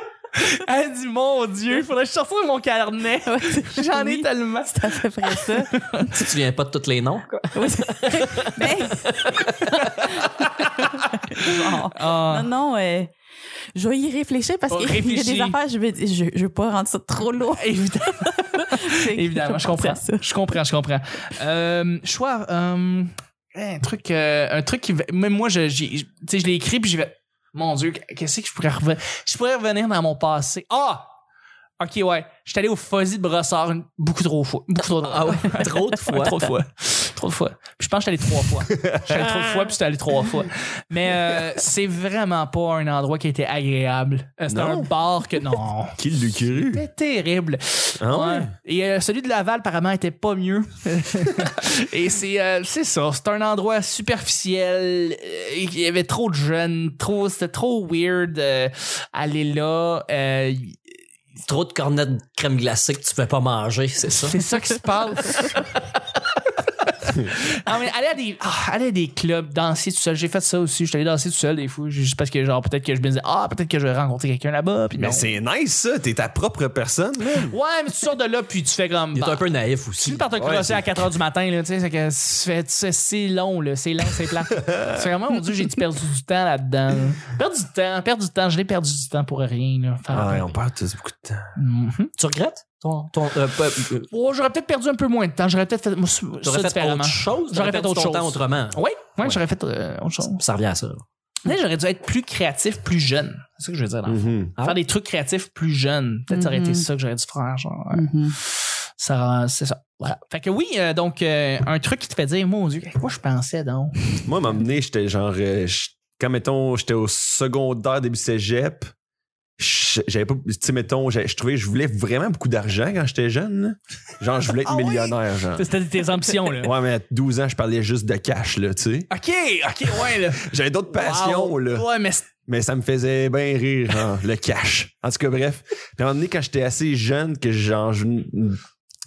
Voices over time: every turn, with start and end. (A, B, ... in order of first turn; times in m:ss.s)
0:00.3-0:06.1 A
0:03.3-0:06.3 B
0:06.1-0:08.9 C
0:07.5-0:13.1 B
0:09.0-0:12.5 A
0:13.8-0:20.2 B
0:14.7-0:15.6 A
0:17.6-0:31.1 A
0:31.8-0:46.0 A
0:35.0-0:36.5 C
0:38.8-0:39.6 D
0:44.5-0:44.9 D
0:46.0-0:46.8 D
0:46.7-1:00.8 A
0:48.0-0:48.5 D
1:01.5-1:04.5 C
1:04.1-1:05.7 A
1:07.0-1:15.3 A
1:15.0-1:17.6 D
1:17.5-1:19.4 A
1:19.2-1:20.2 C
1:20.0-1:30.6 A
1:20.4-1:20.8 D
1:24.6-1:25.0 D
1:30.1-1:31.5 D
1:31.6-1:32.1 A
1:32.2-1:34.1 C
1:34.1-1:40.4 A
1:36.4-1:39.4 C
1:40.4-1:41.0 C
1:41.4-1:54.2 A
1:44.1-1:44.5 D
1:46.3-1:46.9 B
1:47.9-1:48.4 B
1:54.3-1:58.9 D
1:59.6-2:05.7 D
2:04.6-2:06.7 A
2:06.5-2:09.1 D
2:09.1-2:12.3 A
2:10.4-2:11.9 D
2:12.5-2:18.6 D